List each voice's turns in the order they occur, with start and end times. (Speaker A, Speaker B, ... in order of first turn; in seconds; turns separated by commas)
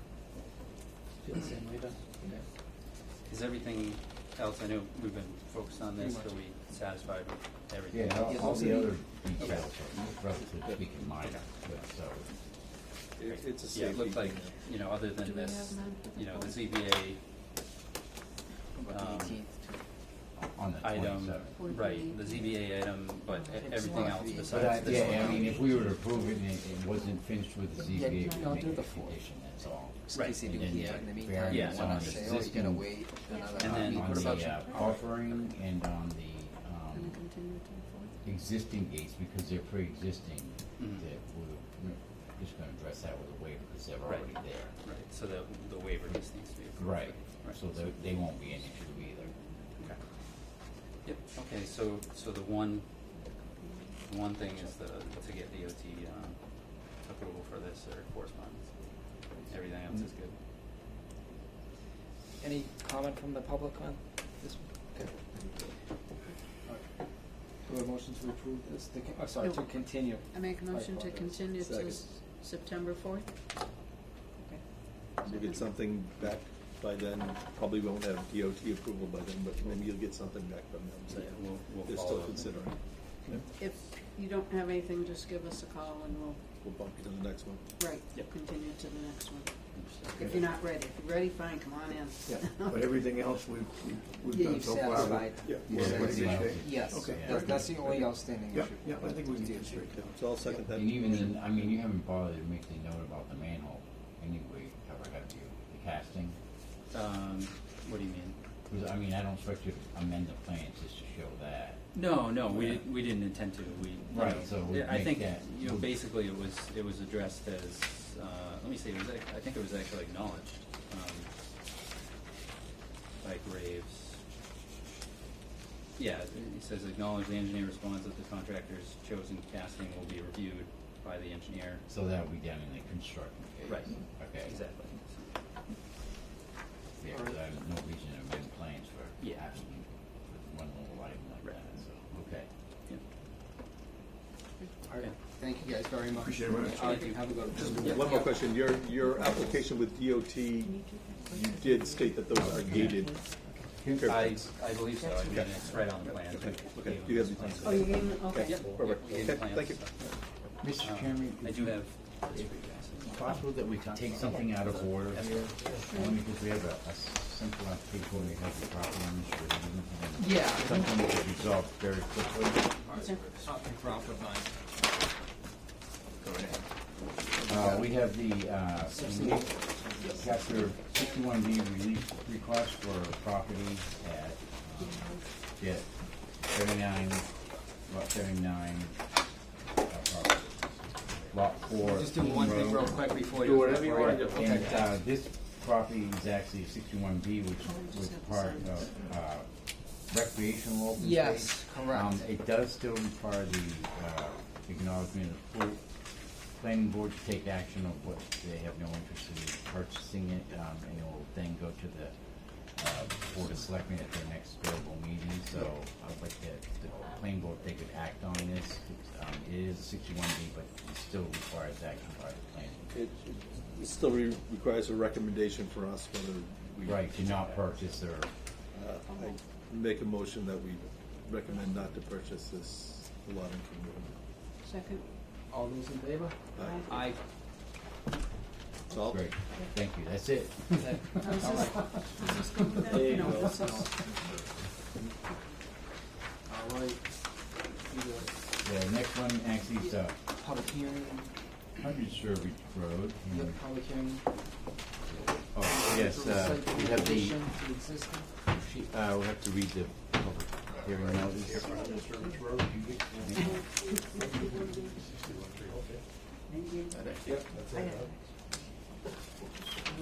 Speaker A: 1.2-2.4, Speaker B: 3.2-8.7, Speaker A: 6.0-6.4, Speaker C: 7.9-12.3, Speaker A: 8.2-8.9, Speaker B: 9.4-9.6, Speaker D: 13.2-14.5, Speaker B: 13.2-17.2, Speaker E: 15.2-16.6, Speaker A: 18.7-19.8, Speaker B: 18.9-19.4, Speaker C: 20.4-21.6, Speaker B: 20.8-25.6, Speaker E: 21.6-22.3, Speaker E: 23.5-23.9, Speaker A: 23.6-25.9, Speaker C: 24.5-33.0, Speaker A: 27.9-29.1, Speaker A: 30.0-34.6, Speaker B: 31.4-32.5, Speaker E: 33.3-33.6, Speaker B: 33.6-35.2, Speaker C: 33.6-37.2, Speaker E: 34.6-34.9, Speaker E: 36.9-38.1, Speaker C: 38.2-44.7, Speaker B: 44.0-47.6, Speaker C: 46.8-50.0, Speaker E: 48.9-49.9, Speaker B: 51.0-52.9, Speaker E: 53.2-54.0, Speaker B: 54.0-60.4, Speaker A: 62.4-65.4, Speaker A: 67.6-71.4, Speaker E: 70.3-73.3, Speaker D: 71.6-72.0, Speaker E: 74.4-75.6, Speaker D: 75.2-83.4, Speaker B: 81.1-82.7, Speaker E: 83.6-86.5, Speaker D: 86.6-87.6, Speaker E: 87.8-89.5, Speaker B: 89.7-90.2, Speaker E: 90.1-92.8, Speaker D: 92.3-92.5, Speaker F: 92.5-100.4, Speaker A: 94.3-99.8, Speaker D: 95.4-96.4, Speaker C: 95.7-97.7, Speaker D: 97.2-98.1, Speaker D: 99.9-101.4, Speaker C: 100.7-106.4, Speaker B: 106.9-108.4, Speaker C: 108.7-112.8, Speaker B: 111.9-121.3, Speaker C: 114.1-115.9, Speaker B: 123.2-124.2, Speaker B: 126.0-131.8, Speaker C: 131.9-134.6, Speaker B: 133.6-135.3, Speaker C: 137.0-142.5, Speaker B: 139.2-139.4, Speaker A: 144.8-148.5, Speaker F: 146.1-148.1, Speaker D: 147.6-153.2, Speaker E: 150.6-152.7, Speaker C: 152.5-153.1, Speaker C: 153.7-154.3, Speaker D: 153.8-154.5, Speaker B: 154.0-160.0, Speaker E: 154.9-155.8, Speaker D: 155.2-160.2, Speaker E: 157.6-158.6, Speaker C: 160.6-172.7, Speaker B: 160.8-163.3, Speaker B: 164.5-165.8, Speaker E: 165.7-166.1, Speaker A: 170.2-170.8, Speaker B: 172.8-173.5, Speaker E: 172.9-173.3, Speaker A: 173.3-174.5, Speaker A: 177.4-177.9, Speaker C: 177.4-189.1, Speaker A: 178.9-180.6, Speaker E: 184.8-185.2, Speaker C: 189.8-192.9, Speaker A: 191.8-194.8, Speaker D: 193.4-194.5, Speaker C: 193.9-205.8, Speaker E: 197.6-198.9, Speaker A: 200.9-202.3, Speaker C: 206.5-223.1, Speaker D: 222.9-227.1, Speaker C: 226.8-228.4, Speaker D: 228.7-234.1, Speaker E: 229.1-229.3, Speaker E: 234.6-235.1, Speaker A: 235.5-236.3, Speaker D: 236.5-236.9, Speaker E: 236.6-237.0, Speaker A: 236.9-237.2, Speaker D: 238.9-239.3, Speaker C: 239.0-241.4, Speaker A: 240.8-242.0, Speaker E: 241.1-243.9, Speaker A: 242.9-243.8, Speaker A: 246.5-247.0, Speaker A: 247.9-248.3, Speaker C: 248.6-250.2, Speaker A: 250.3-251.3, Speaker C: 251.8-253.6, Speaker A: 253.3-254.2, Speaker C: 255.3-257.5, Speaker A: 255.7-258.3, Speaker C: 258.5-261.8, Speaker D: 261.6-262.0, Speaker E: 261.6-262.3, Speaker F: 262.8-263.4, Speaker C: 263.1-263.6, Speaker E: 263.4-264.9, Speaker D: 265.3-266.0, Speaker E: 266.5-267.0, Speaker D: 267.2-268.1, Speaker E: 267.7-268.1